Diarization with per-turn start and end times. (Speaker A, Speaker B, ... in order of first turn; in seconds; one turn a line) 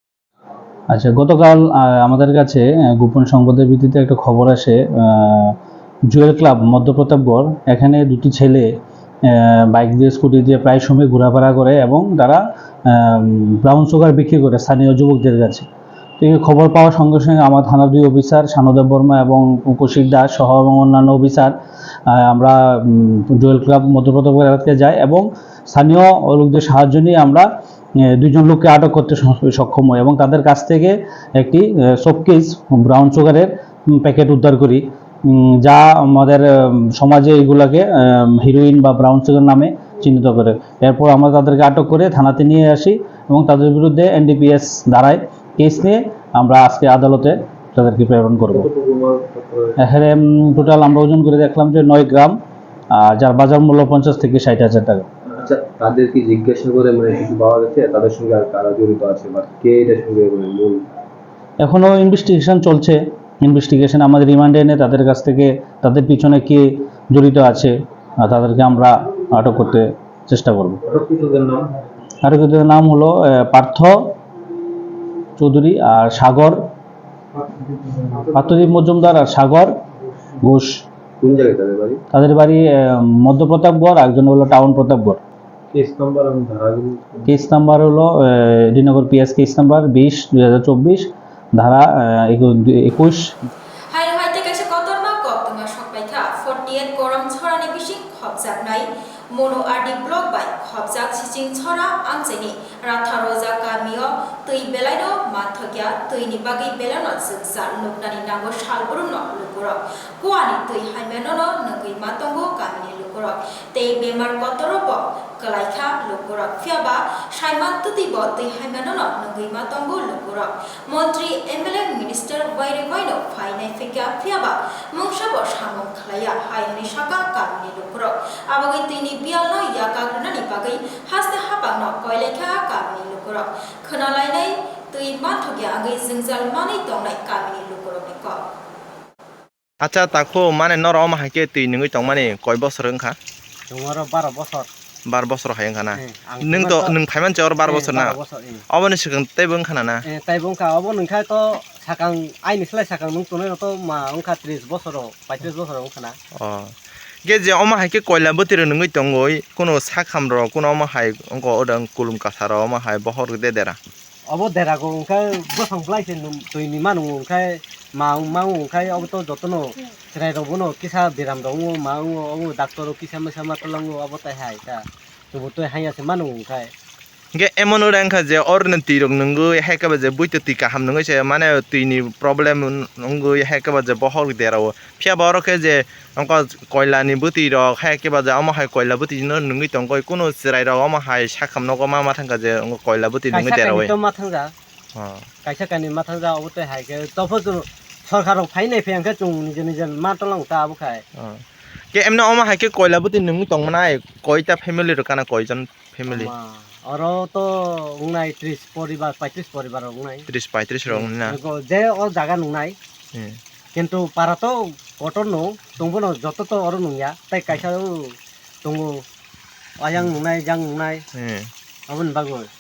Speaker A: 0.9-5.5
Speaker A: 6.1-8.7
Speaker A: 9.3-12.4
Speaker A: 12.9-15.7
Speaker A: 16.2-21.5
Speaker A: 22.1-27.5
Speaker A: 28.2-36.5
Speaker A: 37.0-48.7
Speaker B: 48.8-49.7
Speaker A: 49.8-52.4
Speaker A: 53.0-55.1
Speaker B: 55.4-60.8
Speaker A: 61.6-70.8
Speaker B: 71.0-71.6
Speaker A: 72.2-74.0
Speaker A: 75.4-76.6
Speaker A: 78.3-79.7
Speaker A: 80.4-80.8
Speaker B: 81.2-82.0
Speaker A: 82.1-85.2
Speaker B: 85.7-87.1
Speaker A: 87.2-93.2
Speaker C: 93.9-138.4
Speaker D: 139.8-143.2
Speaker E: 143.7-144.7
Speaker D: 145.1-148.2
Speaker E: 146.0-146.9
Speaker E: 147.6-148.6
Speaker D: 148.7-150.0
Speaker E: 150.1-156.2
Speaker D: 156.4-156.7
Speaker D: 157.2-163.8
Speaker E: 164.3-176.7
Speaker D: 177.3-193.9
Speaker E: 193.3-194.5
Speaker D: 195.0-195.2
Speaker E: 195.4-201.0
Speaker D: 201.2-201.4
Speaker D: 201.9-206.3
Speaker E: 206.1-210.3
Speaker D: 210.3-211.4
Speaker E: 210.9-212.8
Speaker E: 213.8-219.0
Speaker E: 219.8-221.0
Speaker D: 221.2-221.5
Speaker E: 221.9-222.5